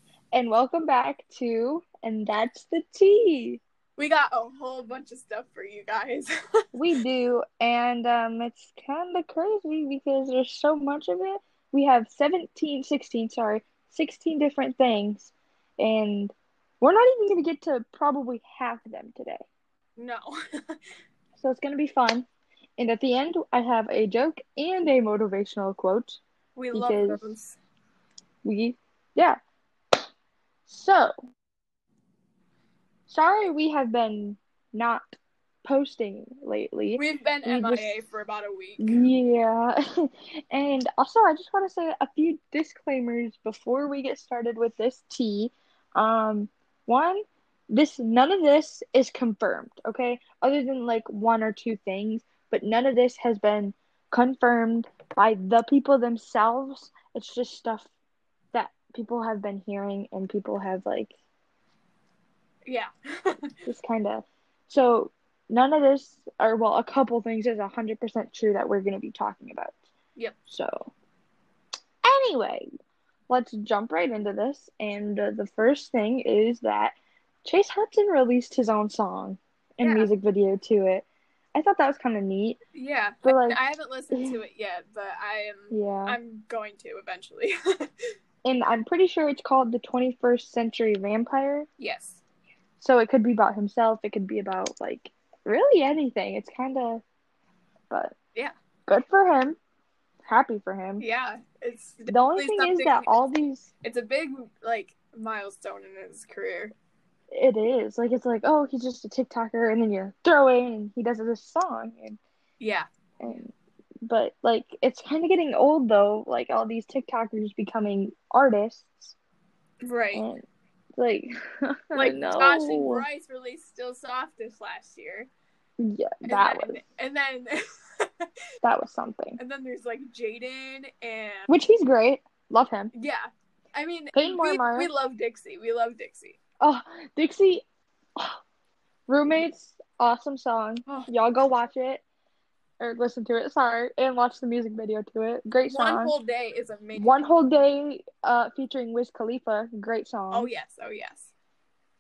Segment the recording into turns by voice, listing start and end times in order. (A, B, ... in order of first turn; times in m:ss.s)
0:00.3-0:03.6 A
0:04.0-0:06.3 B
0:06.7-0:19.5 A
0:20.0-0:20.7 B
0:21.4-0:22.2 A
0:22.8-0:26.2 A
0:26.6-0:27.6 B
0:26.7-0:27.3 A
0:28.4-0:29.4 A
0:30.7-0:31.1 A
0:33.1-0:35.0 A
0:35.6-0:37.9 A
0:37.0-0:39.0 B
0:38.8-0:57.9 A
0:58.5-1:01.1 A
1:02.6-1:03.5 B
1:03.6-1:09.7 A
1:10.5-1:10.9 A
1:12.0-1:12.6 A
1:13.3-1:22.6 A
1:19.8-1:20.1 B
1:22.7-1:27.5 B
1:23.2-1:23.6 A
1:24.1-1:24.4 A
1:25.7-1:26.2 A
1:28.4-1:31.7 A
1:31.8-1:32.2 B
1:32.8-1:37.0 A
1:37.9-1:38.2 A
1:38.9-1:39.6 A
1:40.3-1:41.0 A
1:41.0-1:43.3 B
1:42.1-1:43.7 A
1:43.8-1:46.7 B
1:47.3-1:52.2 A
1:52.6-1:52.9 B
1:53.2-1:53.5 A
1:54.0-1:59.1 A
1:59.8-2:00.2 B
2:00.1-2:00.4 A
2:01.0-2:03.0 A
2:01.9-2:05.3 B
2:05.8-2:06.8 A
2:06.2-2:08.2 B
2:08.6-2:09.4 A
2:09.4-2:11.5 B
2:11.5-2:12.9 A
2:12.9-2:16.4 B
2:14.1-2:14.9 A
2:16.6-2:17.6 A
2:19.1-2:22.0 A
2:22.8-2:26.1 A
2:25.7-2:27.2 B
2:26.9-2:30.5 A
2:30.3-2:31.3 B